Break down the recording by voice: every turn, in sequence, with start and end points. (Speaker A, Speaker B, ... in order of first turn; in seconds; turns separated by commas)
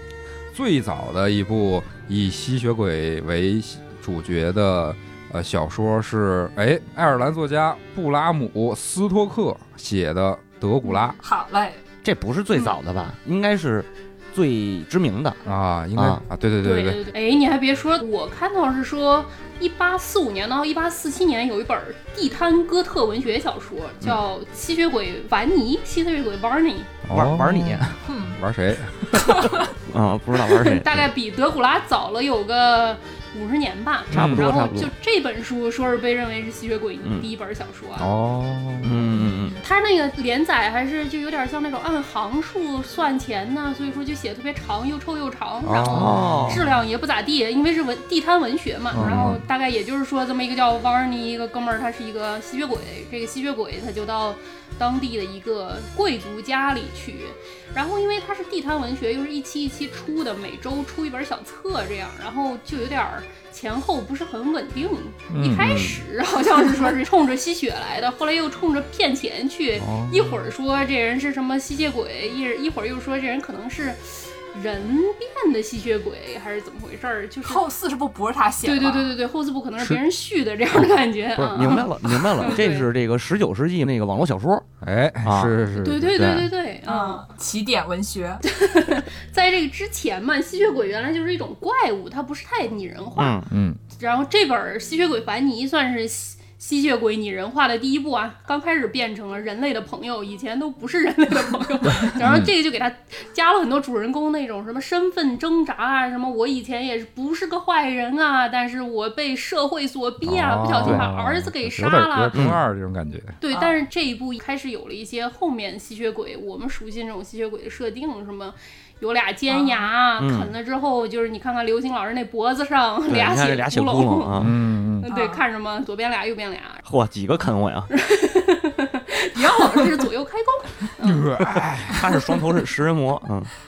Speaker A: 0.5-11.2, Speaker B: 11.2-11.8, Speaker C: 12.0-15.4, Speaker A: 15.4-17.0, Speaker C: 16.0-16.2, Speaker D: 16.6-26.9, Speaker A: 27.0-29.7, Speaker C: 27.1-28.0, Speaker B: 28.1-28.4, Speaker B: 29.1-29.7, Speaker C: 29.9-31.0, Speaker D: 30.4-38.1, Speaker A: 34.1-34.5, Speaker C: 34.1-34.9, Speaker A: 38.0-39.1, Speaker C: 38.8-39.6, Speaker B: 39.3-39.6, Speaker D: 39.6-77.6, Speaker A: 45.6-46.7, Speaker C: 45.9-46.6, Speaker A: 48.9-49.4, Speaker C: 48.9-49.4, Speaker A: 65.3-65.8, Speaker C: 65.5-66.0, Speaker A: 69.8-70.5, Speaker B: 77.4-79.1, Speaker D: 78.6-82.9, Speaker C: 81.3-84.7, Speaker A: 84.8-86.2, Speaker C: 85.2-85.5, Speaker D: 85.8-87.2, Speaker C: 86.1-86.5, Speaker B: 86.8-88.4, Speaker D: 88.4-93.4, Speaker C: 93.2-93.5, Speaker A: 93.5-93.8, Speaker D: 93.9-112.4, Speaker A: 102.2-102.5, Speaker A: 110.2-113.4, Speaker C: 112.3-112.6, Speaker D: 113.4-124.4, Speaker B: 113.5-113.8, Speaker B: 119.5-119.9, Speaker C: 120.2-120.5, Speaker C: 123.1-124.5, Speaker A: 124.3-125.1, Speaker D: 125.0-126.8, Speaker B: 125.0-125.4, Speaker C: 126.8-127.9, Speaker D: 127.9-131.3, Speaker B: 129.4-130.0, Speaker A: 131.0-132.1, Speaker C: 131.8-133.5